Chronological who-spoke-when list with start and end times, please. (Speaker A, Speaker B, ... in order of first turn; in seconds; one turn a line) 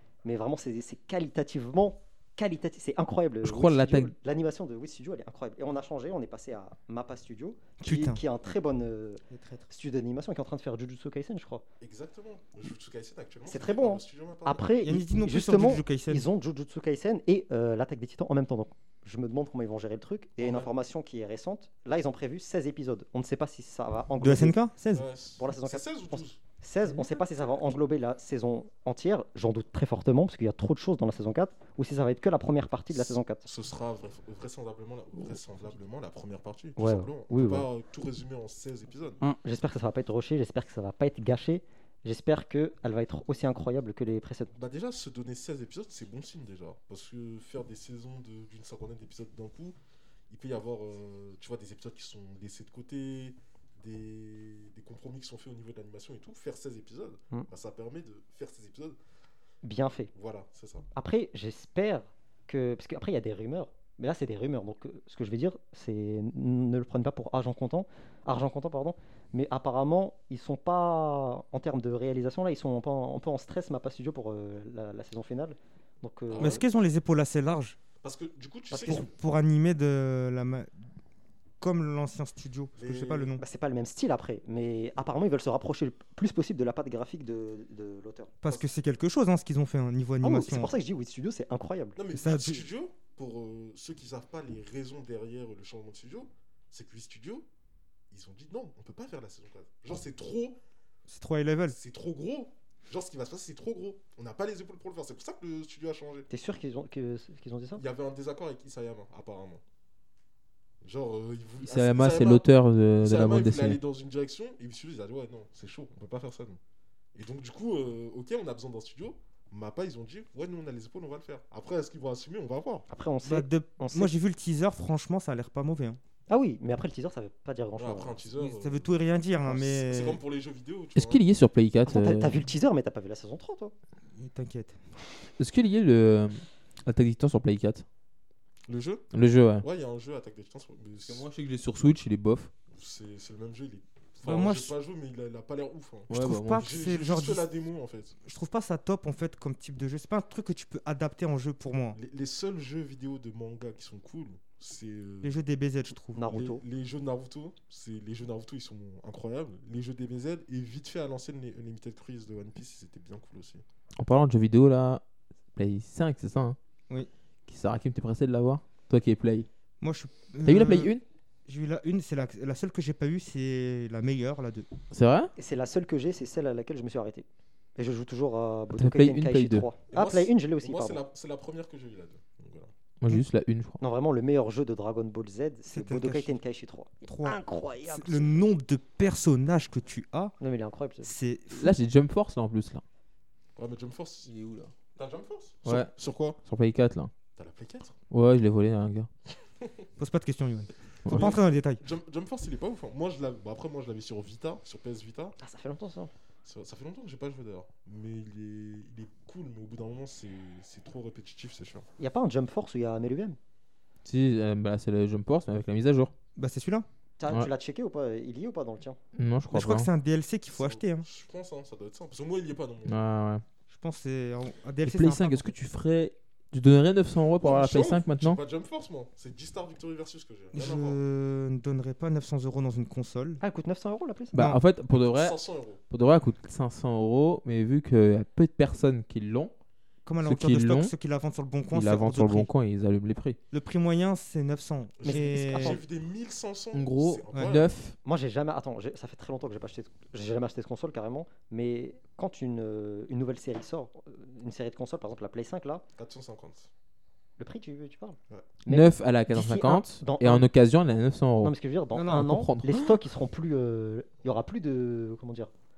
Speaker A: 0.2-11.6
Speaker B: 3.4-4.1
Speaker C: 7.8-8.2
Speaker C: 9.3-9.7
Speaker D: 11.8-14.7
Speaker A: 13.5-24.6
Speaker C: 14.8-16.2
Speaker D: 20.4-20.7
Speaker C: 24.2-25.1
Speaker D: 24.9-26.4
Speaker A: 25.4-33.5
Speaker D: 32.9-39.2
Speaker A: 36.8-37.7
Speaker A: 39.2-44.5
Speaker D: 44.5-49.8
Speaker D: 50.3-59.0
Speaker A: 59.6-60.1
Speaker D: 60.1-60.9
Speaker A: 60.9-76.6
Speaker D: 76.3-76.6
Speaker C: 76.4-77.8
Speaker D: 78.0-79.1
Speaker A: 78.7-79.1
Speaker C: 78.8-80.7
Speaker C: 81.6-83.4
Speaker D: 82.8-83.4
Speaker A: 83.4-88.3
Speaker C: 88.4-90.7
Speaker A: 90.2-92.0
Speaker D: 92.0-97.5
Speaker C: 92.1-92.6
Speaker D: 98.1-100.6
Speaker C: 101.1-101.8
Speaker D: 101.7-106.3
Speaker A: 106.3-107.8
Speaker D: 107.8-109.6
Speaker D: 110.8-112.5
Speaker B: 111.6-113.8
Speaker D: 113.0-116.6
Speaker D: 117.1-122.9
Speaker A: 122.9-124.1
Speaker C: 123.2-126.0
Speaker A: 126.3-128.2
Speaker D: 127.8-128.9
Speaker C: 128.4-130.2
Speaker D: 129.4-131.2
Speaker B: 130.9-132.4
Speaker A: 131.9-133.7
Speaker C: 134.2-134.8
Speaker B: 135.4-137.8
Speaker D: 138.7-141.2
Speaker B: 139.1-139.7
Speaker B: 141.1-142.5
Speaker D: 142.7-148.2
Speaker C: 144.2-144.7
Speaker B: 146.1-146.7
Speaker C: 146.1-147.4
Speaker C: 148.2-152.0
Speaker D: 151.9-155.3
Speaker C: 155.2-156.2
Speaker A: 156.1-156.6
Speaker D: 156.3-163.6
Speaker B: 164.0-165.0
Speaker B: 165.5-166.6
Speaker B: 167.5-169.5
Speaker C: 169.8-170.9
Speaker B: 170.4-171.0
Speaker C: 171.5-174.7
Speaker B: 174.9-175.3
Speaker A: 175.4-181.0
Speaker B: 178.8-179.7
Speaker D: 179.9-182.7
Speaker B: 183.0-183.8
Speaker A: 183.8-188.5
Speaker C: 185.7-186.4
Speaker C: 187.0-190.3
Speaker A: 190.4-191.1
Speaker C: 191.0-191.8
Speaker B: 191.5-192.8
Speaker D: 193.6-194.3
Speaker B: 194.3-194.7
Speaker D: 194.9-196.4
Speaker B: 195.6-195.9
Speaker B: 196.4-197.1
Speaker D: 197.4-197.9
Speaker B: 198.1-199.1
Speaker D: 199.5-199.9
Speaker C: 200.0-201.8
Speaker B: 201.1-201.3
Speaker D: 201.1-205.4
Speaker A: 205.4-206.1
Speaker D: 206.4-211.9
Speaker A: 212.0-213.4
Speaker B: 214.0-216.1
Speaker C: 216.4-216.9
Speaker A: 217.2-219.0
Speaker B: 219.1-219.9
Speaker C: 219.5-221.1
Speaker D: 220.5-223.0
Speaker B: 222.9-223.4
Speaker C: 223.7-225.5
Speaker B: 224.8-228.4
Speaker D: 227.4-231.0
Speaker C: 230.5-233.4
Speaker A: 233.4-234.5
Speaker C: 234.3-234.6
Speaker B: 234.3-235.4
Speaker D: 234.9-235.8
Speaker B: 235.9-239.5
Speaker C: 240.1-242.5
Speaker B: 240.2-240.9
Speaker B: 241.7-243.4
Speaker C: 243.5-245.8
Speaker D: 245.0-247.6
Speaker A: 245.1-245.8
Speaker B: 246.7-247.9
Speaker A: 248.0-255.8
Speaker D: 255.9-256.7
Speaker A: 257.4-260.5
Speaker B: 258.6-261.5
Speaker A: 261.4-265.5
Speaker C: 261.9-262.3
Speaker B: 262.1-262.9